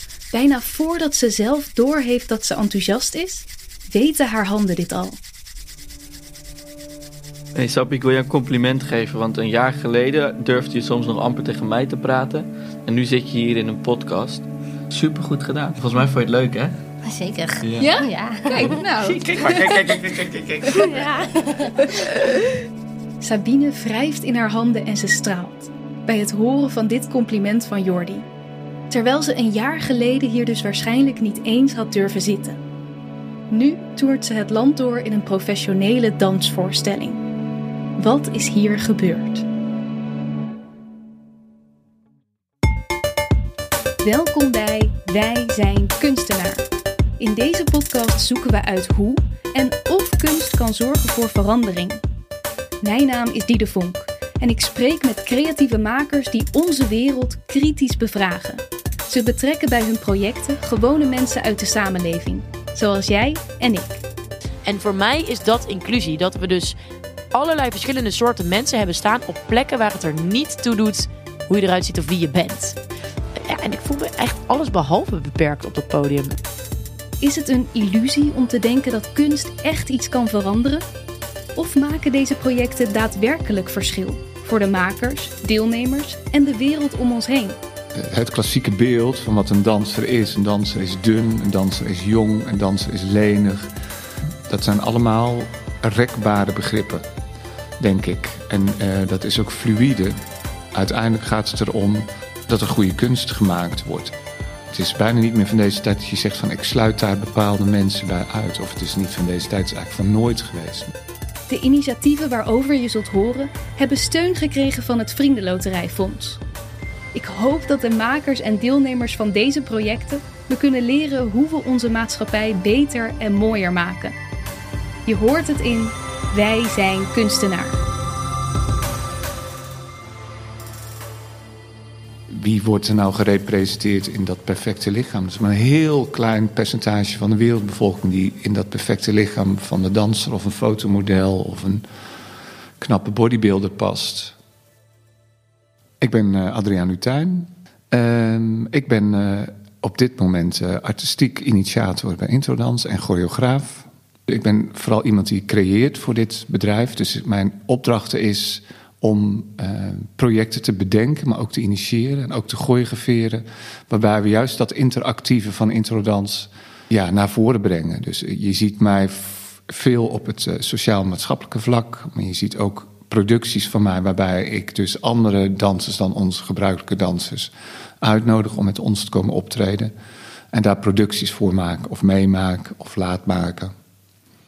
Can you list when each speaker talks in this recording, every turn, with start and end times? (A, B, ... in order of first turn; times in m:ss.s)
0:00.3-0:05.2 A
0:07.5-0:16.7 B
0:17.0-0:18.8 C
0:17.6-0:17.9 B
0:17.8-0:19.9 A
0:18.6-0:21.0 B
0:20.7-0:21.8 C
0:23.2-0:28.3 A
0:28.9-0:32.6 A
0:33.5-0:37.2 A
0:38.0-0:39.4 A
0:44.0-0:46.7 A
0:47.2-0:52.0 A
0:52.8-1:04.0 A
1:04.6-1:06.8 D
1:07.3-1:12.8 D
1:13.4-1:16.4 D
1:17.2-1:20.8 A
1:21.6-1:27.6 A
1:27.9-1:33.7 E
1:34.5-1:37.0 E
1:37.8-1:40.2 E
1:40.7-1:44.1 E
1:44.7-1:50.9 E
1:51.5-1:56.4 A
1:57.1-2:04.2 A
2:05.0-2:07.8 A
2:12.3-2:21.8 E
2:22.8-2:24.3 E
2:26.0-2:59.9 E
3:00.5-3:03.7 E